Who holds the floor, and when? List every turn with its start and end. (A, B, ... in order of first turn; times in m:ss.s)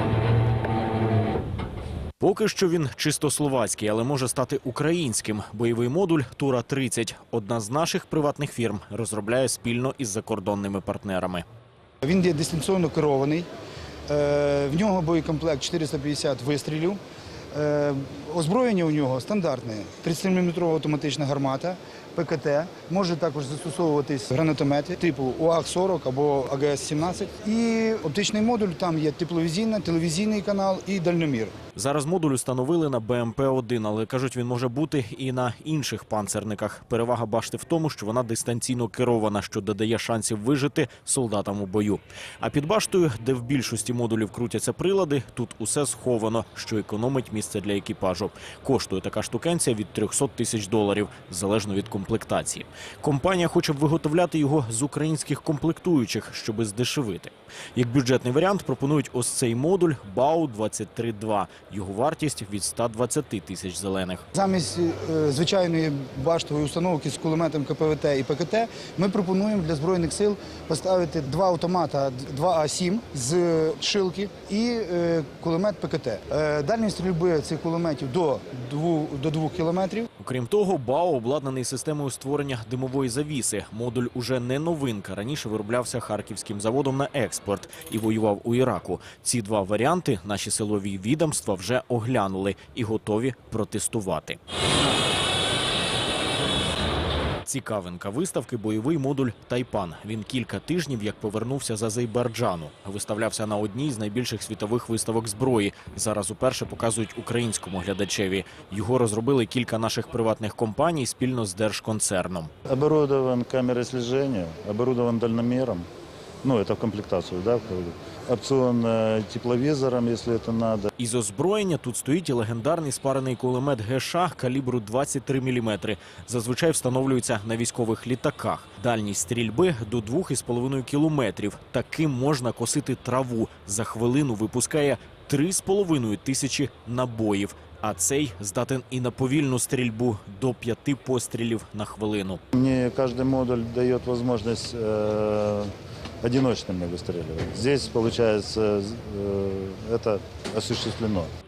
0:02.2-0:11.4 A
0:12.0-0:13.5 B
0:14.1-0:17.0 B
0:17.5-0:31.5 B
0:31.7-1:04.2 A
1:04.3-1:20.1 B
1:20.2-1:34.4 A
1:37.4-1:52.5 A
1:52.7-1:55.9 C
1:56.4-2:00.9 C
2:01.0-2:22.4 A
2:22.5-2:25.7 C
2:26.2-2:31.3 C